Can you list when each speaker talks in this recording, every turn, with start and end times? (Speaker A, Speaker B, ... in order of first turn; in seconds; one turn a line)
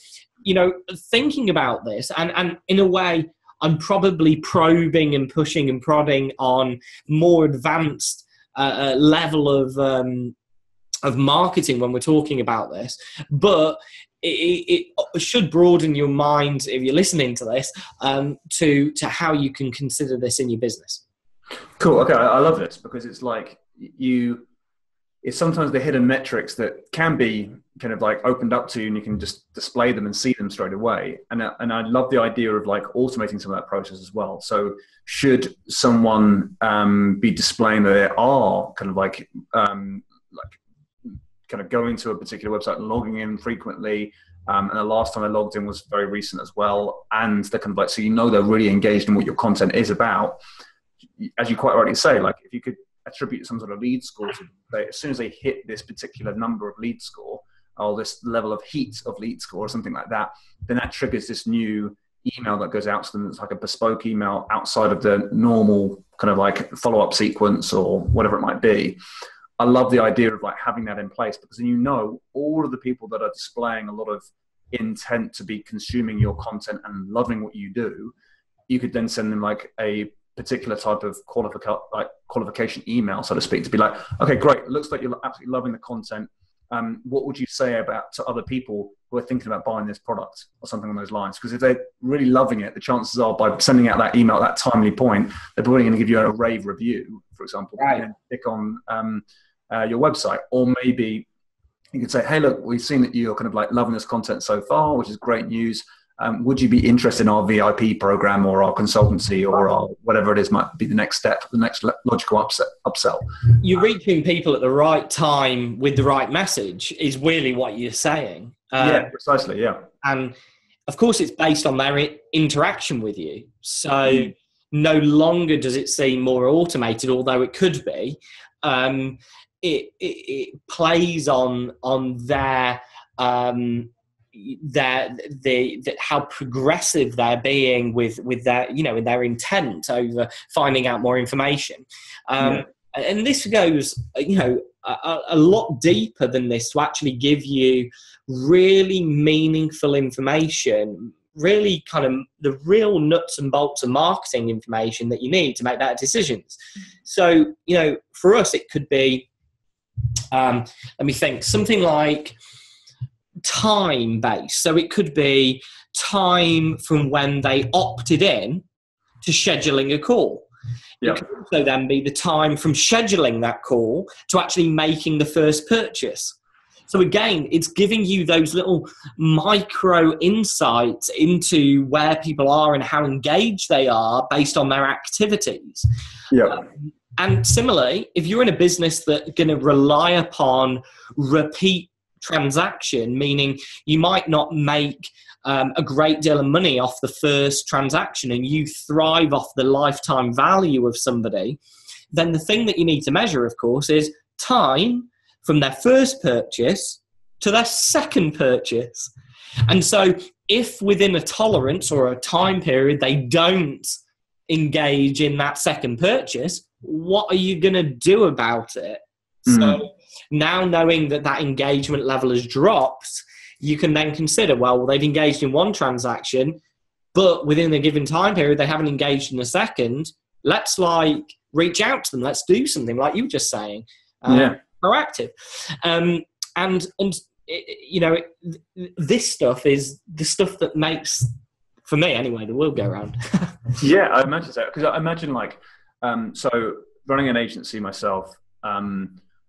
Speaker A: 0.4-10.3
Speaker A: 11.0-21.0
Speaker B: 21.8-24.4
Speaker B: 25.2-50.4
Speaker B: 51.2-69.0
Speaker B: 69.6-78.1
Speaker B: 78.7-101.3
Speaker A: 97.8-98.0
Speaker B: 101.9-113.2
Speaker A: 113.6-119.1
Speaker B: 118.8-119.8
Speaker A: 120.0-120.3
Speaker A: 120.9-159.3
Speaker B: 124.0-124.3
Speaker A: 160.3-162.4
Speaker A: 163.4-168.6
Speaker A: 169.2-170.4
Speaker A: 171.0-176.4
Speaker A: 176.9-185.8
Speaker B: 186.3-186.6
Speaker A: 186.4-201.6
Speaker A: 202.1-209.1
Speaker A: 209.7-226.6
Speaker B: 219.5-219.8
Speaker A: 227.1-241.3
Speaker B: 234.3-234.6
Speaker A: 241.8-243.6
Speaker B: 243.8-249.2